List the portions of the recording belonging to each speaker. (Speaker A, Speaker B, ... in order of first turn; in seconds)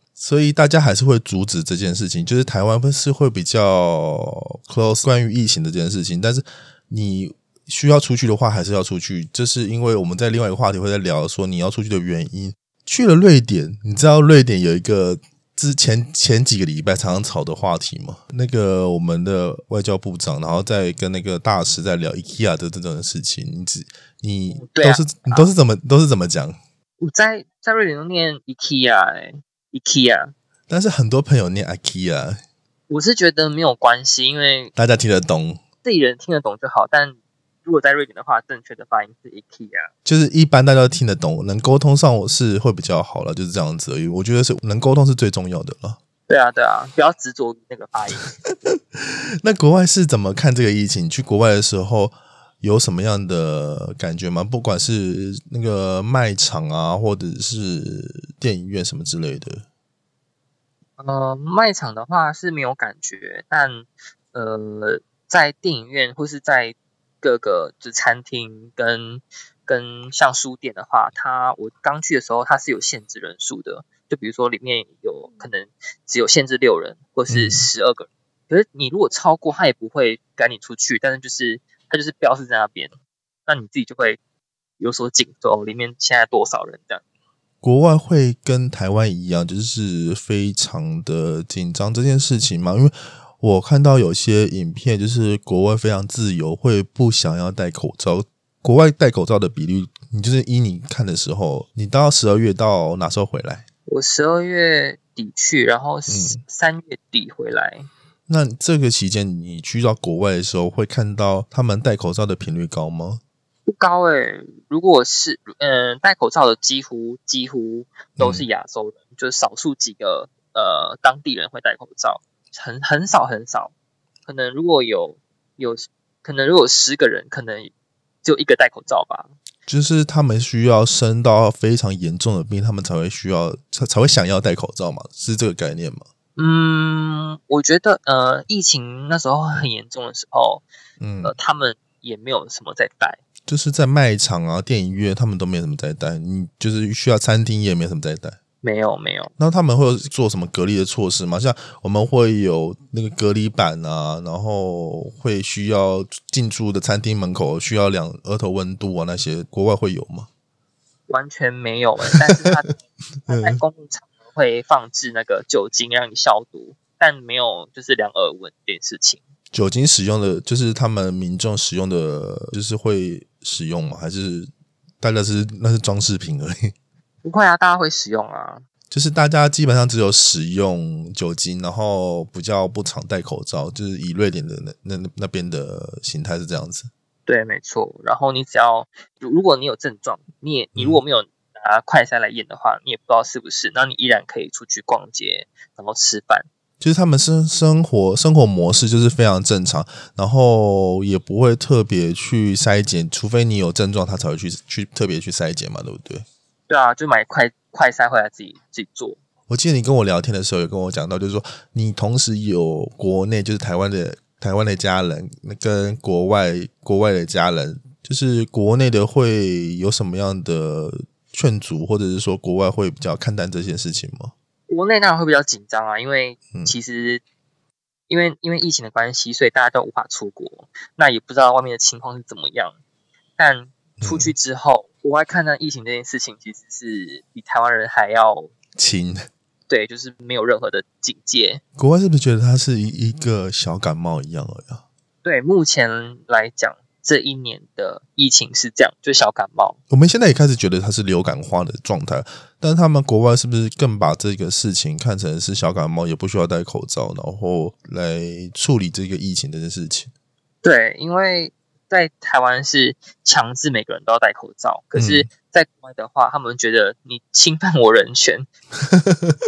Speaker A: 0.2-26.6, 30.7-32.4, 34.8-35.6, 40.0-46.0, 48.3-59.7, 77.3-77.7, 87.6-103.7, 106.1-106.4, 108.3-113.2, 118.2-118.4, 129.7-136.1, 141.0-141.3, 143.5-148.4, 149.4-160.3, 163.2-163.6, 169.5-174.5, 175.0-176.7, 178.9-186.9, 190.8-191.0, 196.8-206.3, 209.5-224.3, 234.0-234.3, 238.8-239.2, 241.8-244.8, 249.9-260.1, 264.9-265.3, 268.9-269.4
Speaker B: 24.6-25.5, 27.0-30.3, 32.9-34.7, 35.8-39.9, 46.3-48.3, 61.0-82.9, 83.5-84.2, 84.8-87.0, 103.9-107.9, 113.7-123.7, 124.2-127.7, 128.2-129.3, 136.4-140.6, 141.2-143.2, 148.6-149.3, 161.1-169.2, 177.2-178.6, 187.3-196.5, 206.7-209.2, 224.7-227.2, 228.1-232.8, 233.4-238.5, 239.7-241.6, 245.2-249.8, 260.6-268.5